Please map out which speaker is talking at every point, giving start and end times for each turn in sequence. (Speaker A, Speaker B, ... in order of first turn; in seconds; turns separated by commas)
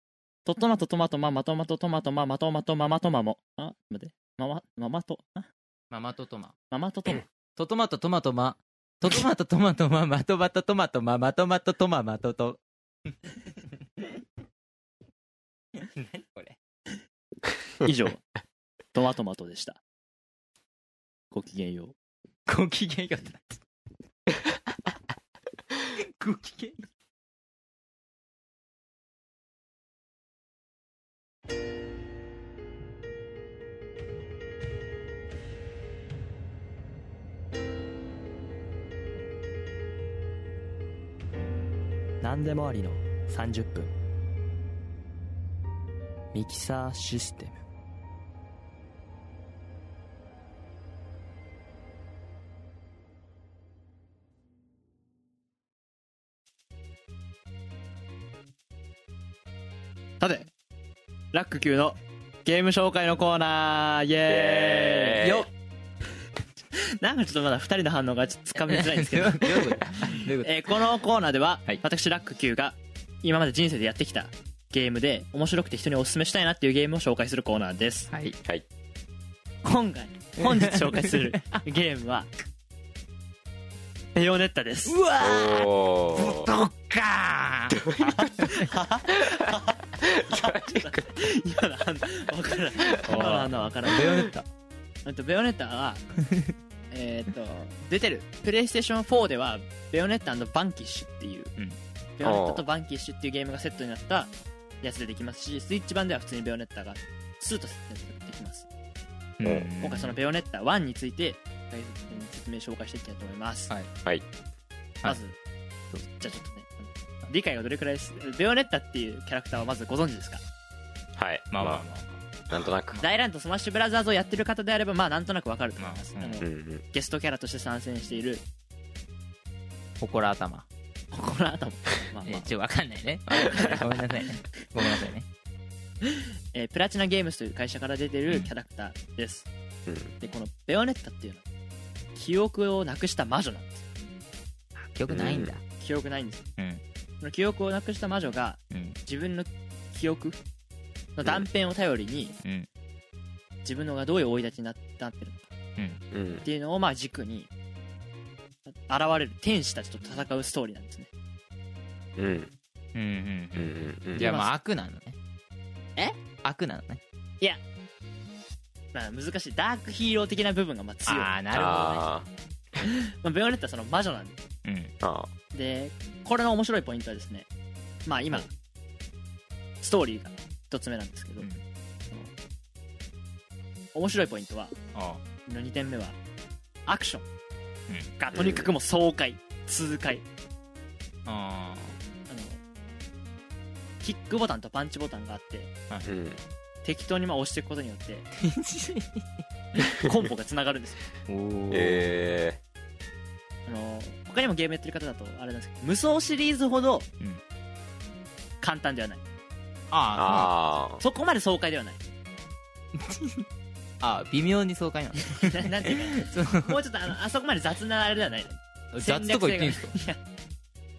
Speaker A: 0.5-5.5, Speaker B: 5.9-6.5, Speaker A: 6.7-7.2, Speaker B: 7.6-14.1, Speaker B: 15.8-16.6, Speaker A: 17.8-18.2, Speaker A: 18.9-19.8, Speaker A: 21.3-21.9, Speaker B: 22.5-23.6, Speaker B: 25.9-26.9, Speaker A: 42.2-43.9, Speaker A: 46.3-47.6, Speaker A: 60.2-60.5, Speaker A: 61.3-65.5, Speaker C: 64.3-65.5, Speaker A: 66.8-78.1, Speaker B: 68.7-70.7, Speaker B: 78.1-78.4, Speaker A: 79.6-82.3, Speaker B: 80.4-81.6, Speaker A: 84.2-85.0, Speaker B: 84.9-87.8, Speaker C: 85.2-86.5, Speaker C: 87.8-88.3, Speaker A: 88.0-89.7, Speaker B: 88.4-88.8, Speaker C: 89.2-89.4, Speaker C: 90.0-91.0, Speaker A: 90.3-94.3, Speaker B: 93.0-94.5, Speaker A: 95.0-96.0, Speaker A: 96.9-101.5, Speaker A: 102.2-108.7, Speaker C: 102.2-102.6, Speaker B: 109.4-110.2, Speaker C: 109.4-109.7, Speaker A: 109.8-113.7, Speaker A: 115.0-115.4, Speaker A: 116.2-120.4, Speaker C: 121.2-121.8, Speaker B: 121.5-122.3, Speaker C: 122.5-123.0, Speaker A: 123.0-128.4, Speaker B: 125.8-126.5, Speaker C: 126.4-126.8, Speaker B: 130.0-130.7, Speaker A: 131.1-132.5, Speaker B: 132.2-135.3, Speaker A: 133.5-133.9, Speaker A: 136.1-139.5, Speaker C: 139.9-140.2, Speaker A: 140.2-141.4, Speaker A: 142.2-143.8, Speaker B: 144.8-145.6, Speaker C: 145.1-145.5, Speaker A: 145.8-146.5, Speaker B: 146.6-146.8, Speaker A: 147.2-150.4, Speaker B: 148.7-149.0, Speaker A: 151.2-152.4, Speaker B: 152.4-152.7, Speaker A: 153.7-155.5, Speaker B: 155.8-156.0, Speaker C: 156.1-156.5, Speaker A: 156.4-157.5, Speaker A: 158.7-161.1, Speaker C: 162.2-162.5, Speaker B: 162.9-165.2, Speaker C: 163.6-164.3, Speaker A: 164.2-164.5, Speaker B: 166.0-167.0, Speaker A: 168.9-171.3, Speaker B: 171.1-172.1, Speaker C: 171.5-172.3, Speaker A: 172.8-174.4, Speaker B: 174.7-174.9, Speaker C: 175.0-175.3, Speaker A: 175.5-177.5, Speaker A: 178.1-178.5, Speaker A: 179.8-181.5, Speaker A: 183.9-184.8, Speaker B: 184.9-185.2, Speaker A: 185.5-186.2, Speaker A: 186.9-187.3, Speaker B: 187.9-188.1, Speaker A: 188.2-190.2, Speaker C: 188.3-188.7, Speaker B: 191.2-192.0, Speaker A: 192.3-192.6, Speaker A: 194.0-195.7, Speaker C: 196.1-196.4, Speaker A: 196.8-198.3, Speaker B: 198.4-199.4, Speaker A: 199.8-201.0, Speaker B: 201.3-202.3, Speaker C: 201.7-202.6, Speaker A: 203.7-207.1, Speaker A: 208.6-209.3, Speaker B: 209.9-210.5, Speaker C: 210.2-211.0, Speaker A: 211.0-212.0, Speaker B: 212.9-213.5, Speaker B: 214.0-216.8, Speaker A: 215.2-220.2, Speaker B: 218.9-220.0